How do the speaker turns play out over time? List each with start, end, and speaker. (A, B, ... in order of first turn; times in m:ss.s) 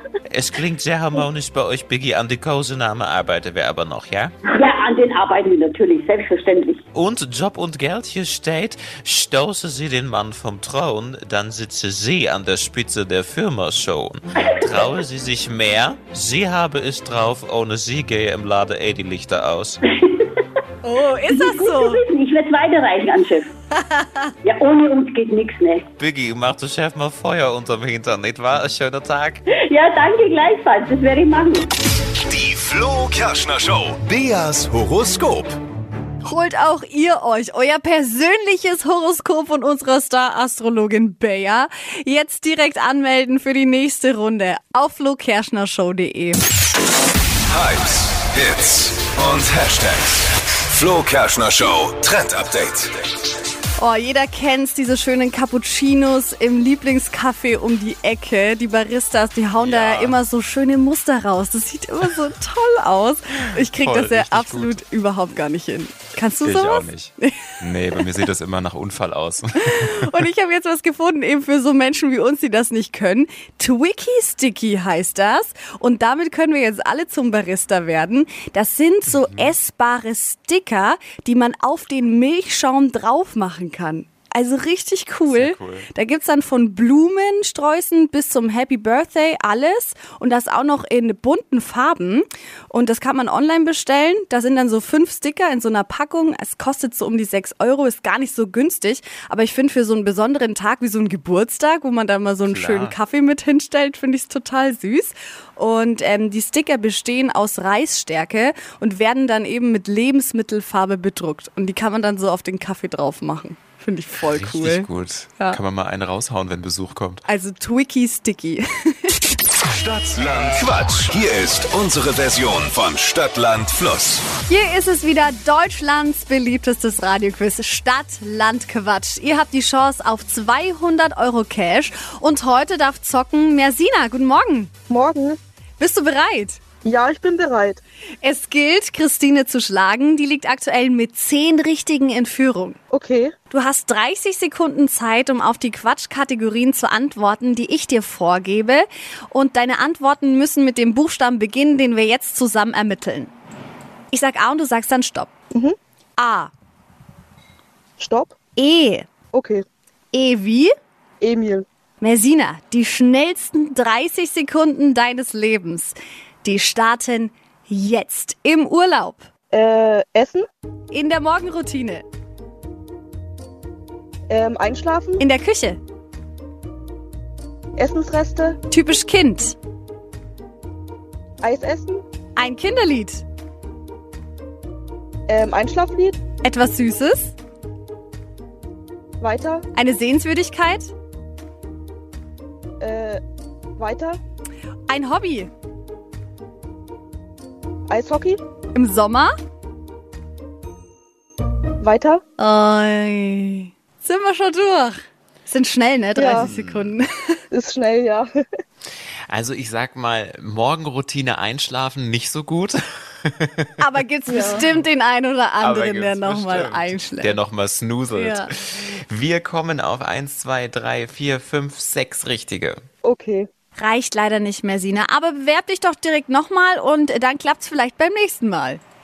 0:00.3-0:04.3 A
0:04.5-0:06.8 B
0:06.9-0:19.8 A
0:14.6-0:15.0 B
0:20.0-0:20.4 B
0:20.8-0:22.0 C
0:21.3-0:23.5 B
0:23.7-0:24.3 C
0:24.4-0:25.9 B
0:26.0-0:29.4 A
0:29.6-0:31.7 B
0:32.2-0:35.6 D
0:36.2-0:46.4 C
0:47.5-0:53.0 D
0:53.8-1:08.0 C
0:59.6-1:00.2 A
1:03.6-1:04.8 A
1:06.4-1:10.2 A
1:09.6-1:55.6 C
1:19.1-1:19.5 A
1:25.3-1:25.9 A
1:42.4-1:43.0 A
1:54.2-1:57.2 A
1:57.3-1:59.2 C
1:59.8-2:04.2 D
2:04.5-2:14.7 C
2:14.9-2:15.4 E
2:15.8-2:16.6 C
2:16.8-2:17.8 E
2:18.2-2:22.8 C
2:22.9-2:23.3 E
2:23.5-2:33.3 C
2:34.1-2:35.3 C
2:36.2-2:36.5 C
2:38.0-2:38.4 E
2:38.6-2:39.1 C
2:39.3-2:39.6 E
2:40.1-2:40.7 C
2:41.2-2:41.6 E
2:42.0-2:49.3 C
2:49.5-2:50.4 E
2:50.9-2:52.0 C
2:54.3-2:55.2 E
2:55.2-2:55.8 C
2:57.8-2:58.6 E
2:58.7-2:59.6 C
3:01.4-3:02.0 E
3:02.4-3:03.2 C
3:05.3-3:06.2 E
3:06.4-3:07.3 C
3:09.2-3:09.6 E
3:09.7-3:10.9 C
3:12.8-3:13.2 E
3:13.8-3:14.2 E
3:14.9-3:15.5 C
3:17.9-3:18.4 E
3:18.7-3:19.3 C
3:21.8-3:22.2 E
3:22.4-3:27.4 C
3:26.2-3:26.5 E
3:26.4-3:26.9 A
3:27.5-3:28.3 E
3:29.3-3:33.8 A
3:33.8-3:37.4 C
3:34.3-3:34.6 E
3:35.6-3:42.8 A
3:38.1-3:38.5 C
3:43.0-3:43.5 E
3:43.8-3:48.8 C